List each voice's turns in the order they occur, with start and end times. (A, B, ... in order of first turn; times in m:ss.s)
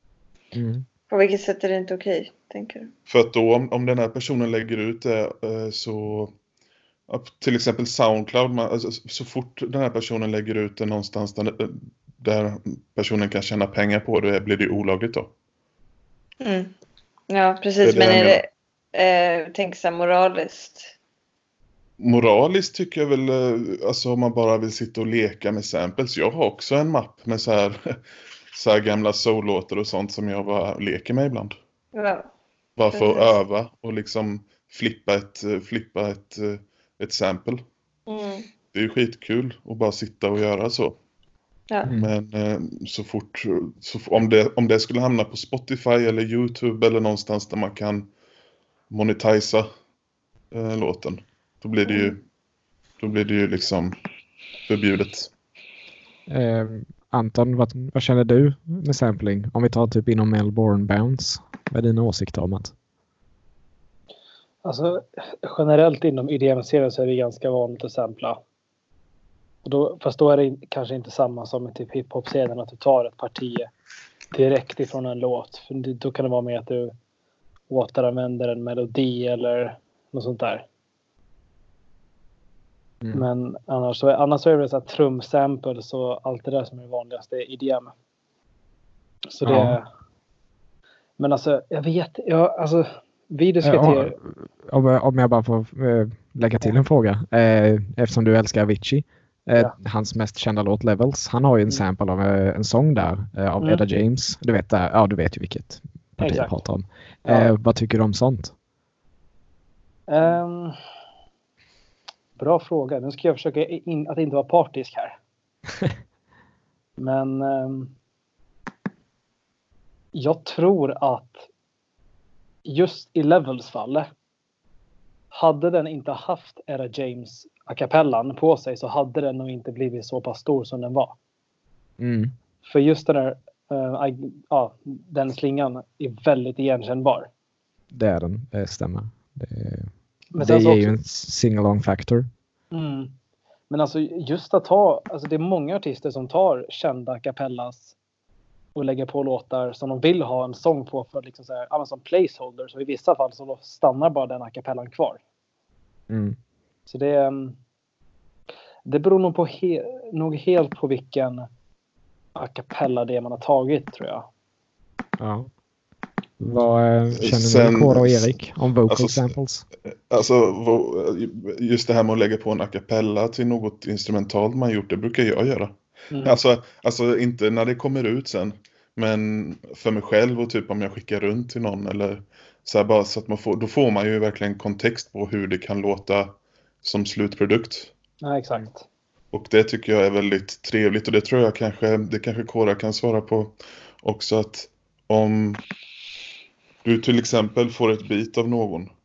0:00.5-0:00.8 A
0:01.1-0:02.9 B
0:03.1-0:06.3 C
0:07.1-0:15.3 C
0:16.4-0:16.7 B
0:17.3-0:20.9 B
0:17.8-0:18.4 C
0:22.0-0:28.0 C
0:28.5-0:31.5 C
0:31.9-0:32.3 B
0:32.8-0:37.6 C
0:32.9-0:33.3 B
0:38.1-0:38.5 B
0:38.7-0:41.0 C
0:41.8-0:42.1 A
0:41.9-0:48.1 C
0:48.9-0:49.7 C
0:50.5-0:52.2 C
0:51.8-0:52.1 B
0:53.0-0:54.0 C
0:54.7-0:55.3 C
0:56.3-1:02.7 A
1:04.6-1:08.4 D
1:09.6-1:13.7 D
1:14.3-1:16.9 D
1:17.7-1:20.6 D
1:23.1-1:27.9 D
1:29.3-1:29.9 D
1:29.4-1:29.8 A
1:31.2-1:34.2 D
1:33.6-1:48.5 A
1:46.2-1:46.5 D
1:47.2-1:47.5 D
1:50.1-1:50.7 D
1:52.4-1:55.2 D
1:57.0-1:57.9 D
2:00.1-2:01.4 D
2:02.6-2:04.1 D
2:05.3-2:11.2 D
2:12.0-2:12.3 A
2:12.6-2:17.3 D
2:17.9-2:22.2 A
2:20.3-2:20.9 D
2:22.7-2:23.1 D
2:23.7-2:27.9 D
2:28.7-2:35.2 D
2:36.1-2:36.4 A
2:36.9-2:37.6 D
2:38.8-2:41.5 D
2:42.3-2:44.3 D
2:45.2-2:45.5 A
2:46.4-2:49.6 A
2:47.1-2:48.3 C
2:48.9-2:49.3 C
2:50.1-3:07.9 C
2:56.1-2:56.4 D
3:08.2-3:08.8 D
3:09.3-3:15.6 C
3:16.8-3:18.9 C